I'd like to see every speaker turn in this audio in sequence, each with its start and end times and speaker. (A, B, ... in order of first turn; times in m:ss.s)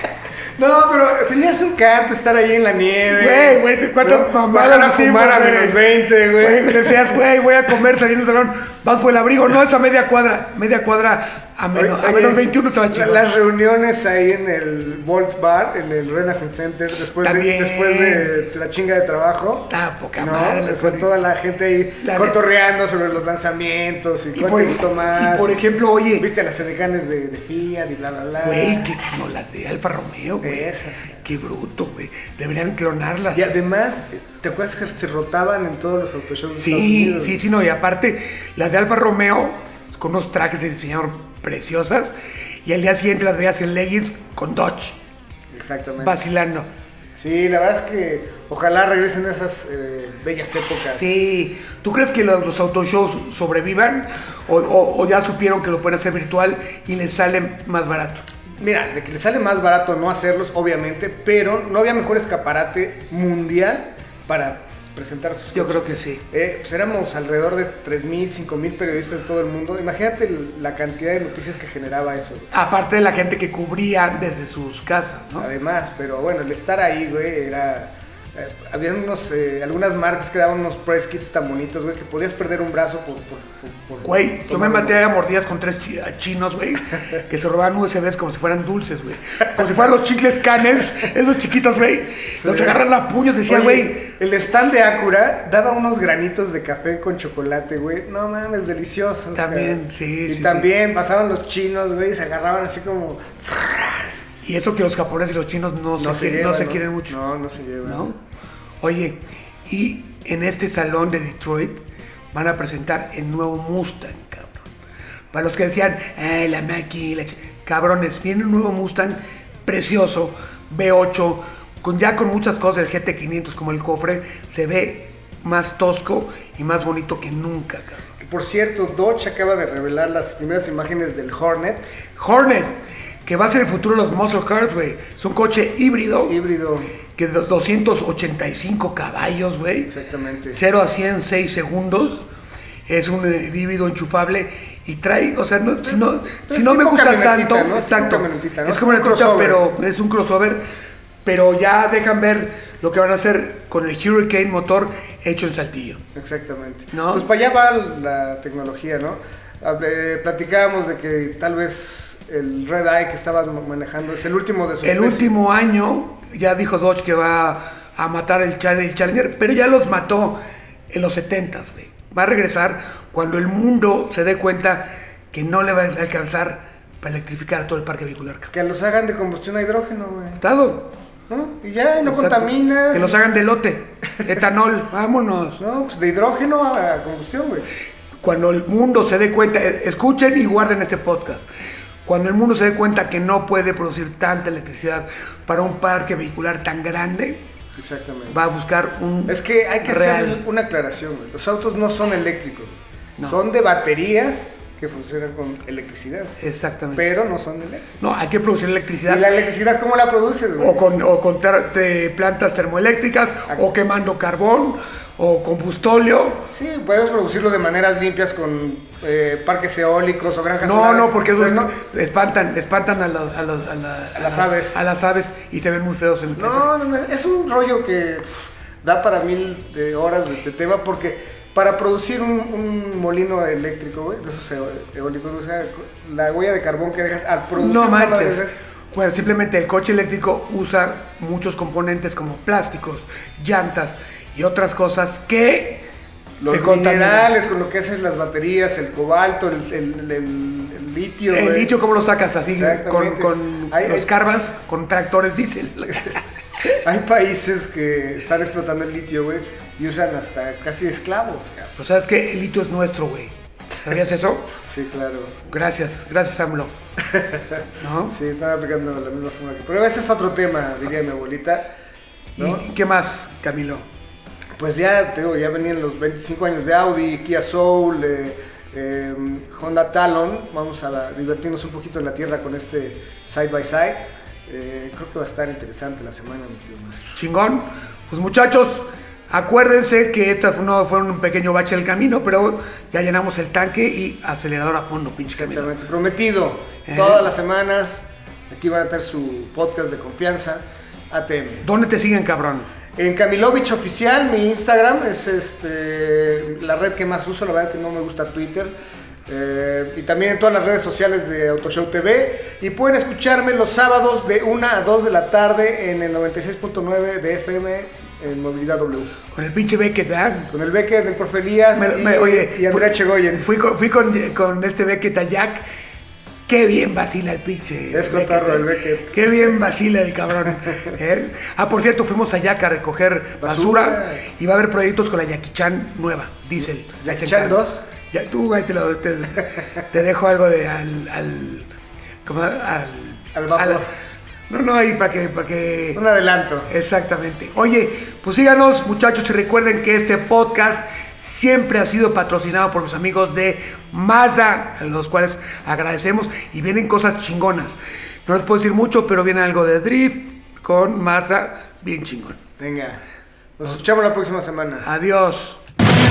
0:00.6-0:07.1 A
0:03.1-0:13.3 B
0:11.7-0:25.6 A
0:17.2-0:18.3 B
0:19.7-0:21.2 B
0:22.0-0:22.4 B
0:24.3-0:26.3 B
0:26.2-0:28.9 A
0:28.4-0:30.7 B
0:30.4-0:31.2 A
0:31.2-0:33.5 B
0:33.3-0:37.4 A
0:36.5-0:45.0 B
0:45.5-0:46.2 A
0:46.0-0:46.7 B
0:47.2-0:51.1 A
0:51.0-0:58.2 B
0:58.6-1:12.5 A
1:05.5-1:06.2 B
1:12.5-1:15.5 B
1:15.4-1:24.9 A
1:24.0-1:34.1 B
1:32.4-1:32.8 A
1:33.4-1:44.2 A
1:39.3-1:40.7 B
1:44.4-1:47.2 B
1:46.0-1:48.1 A
1:47.8-1:48.2 B
1:48.8-1:54.6 B
1:55.3-2:08.0 B
2:08.2-2:11.8 A
2:12.2-2:16.4 B
2:16.2-2:16.9 A
2:17.2-2:19.9 B
2:19.9-2:20.6 A
2:20.5-2:22.2 B
2:22.9-2:30.6 B
2:25.9-2:29.6 A
2:31.2-2:36.0 B
2:36.1-2:45.3 A
2:36.9-2:37.3 B
2:44.8-2:58.5 B
2:58.5-3:00.4 A
3:00.4-3:00.9 B
3:01.3-3:03.2 A
3:02.0-3:05.6 B
3:05.6-3:07.7 A
3:08.2-3:11.5 B
3:12.0-3:17.4 B
3:17.8-3:18.4 A
3:18.3-3:20.4 B
3:19.3-3:26.4 A
3:26.4-3:27.1 B
3:26.9-3:27.9 A
3:28.0-3:29.3 B
3:29.0-3:30.8 A
3:30.6-3:36.5 B
3:36.5-3:41.7 A
3:40.6-3:46.7 B
3:44.2-3:44.8 A
3:46.4-3:48.3 A
3:48.8-3:58.5 A
3:57.6-4:05.8 B
4:06.4-4:11.7 A
4:06.4-4:07.3 B
4:11.3-4:16.8 B
4:12.5-4:14.1 A
4:16.8-4:21.7 A
4:21.8-4:24.5 B
4:24.6-4:25.4 A
4:25.5-4:26.7 B
4:27.0-4:31.7 A
4:27.8-4:28.2 B
4:32.4-4:33.8 B
4:32.4-4:32.6 A
4:34.6-4:47.1 A
4:47.2-4:55.7 B
4:55.3-5:01.6 A
4:56.8-4:57.3 B
5:01.6-5:02.7 B
5:03.0-5:08.7 A
5:09.3-5:19.1 A
5:19.3-5:20.5 B
5:20.5-5:23.5 A
5:21.7-5:25.6 B
5:26.5-5:41.7 B
5:27.9-5:29.4 A
5:33.4-5:34.2 A
5:37.0-5:37.8 A
5:42.2-5:43.8 B
5:43.3-5:43.9 A
5:44.5-5:46.0 B
5:45.9-5:46.7 A
5:46.7-6:02.4 B
6:02.6-6:03.0 A
6:03.6-6:04.9 A
6:04.8-6:05.6 B